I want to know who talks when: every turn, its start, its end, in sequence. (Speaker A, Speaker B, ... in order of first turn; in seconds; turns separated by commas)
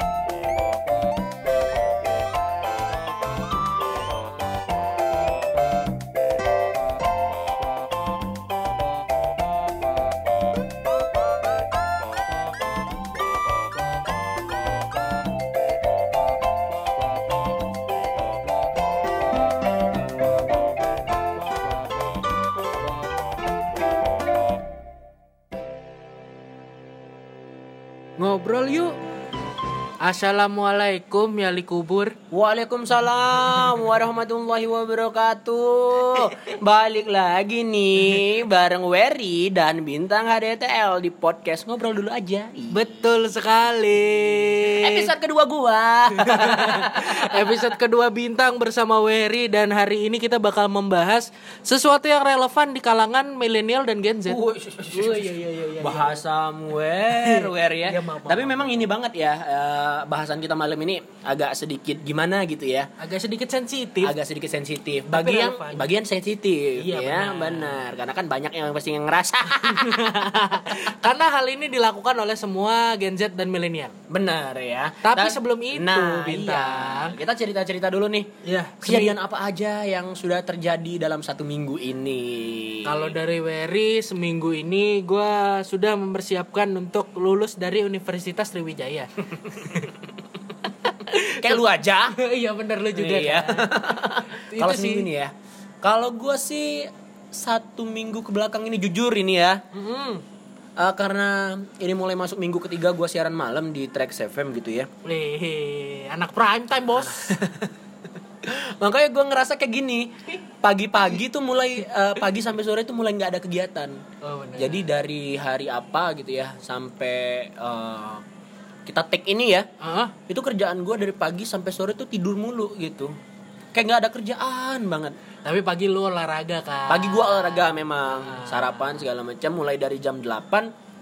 Speaker A: 28.2-29.0, Speaker A: 30.0-32.1, Speaker B: 32.3-42.9, Speaker A: 42.7-45.1, Speaker B: 44.8-47.6, Speaker A: 46.2-54.4, Speaker B: 54.3-62.9, Speaker A: 54.9-56.2, Speaker A: 57.1-58.8, Speaker A: 63.0-64.1, Speaker B: 64.0-70.8, Speaker A: 65.1-65.8, Speaker A: 66.8-67.8, Speaker A: 69.7-73.9, Speaker B: 74.1-78.3, Speaker A: 75.0-77.1, Speaker A: 78.4-79.1, Speaker B: 78.8-83.1, Speaker A: 82.8-89.9, Speaker A: 91.0-91.6, Speaker B: 91.4-92.1, Speaker A: 92.1-95.1, Speaker B: 93.0-99.6, Speaker A: 99.7-100.2, Speaker B: 100.8-104.9, Speaker A: 105.0-107.3, Speaker B: 107.1-107.7, Speaker B: 108.4-114.0, Speaker A: 114.2-114.8, Speaker B: 114.6-118.2, Speaker B: 118.9-119.7, Speaker A: 119.8-120.1, Speaker B: 120.3-123.1, Speaker B: 123.7-125.2, Speaker A: 125.4-129.0, Speaker B: 126.9-130.7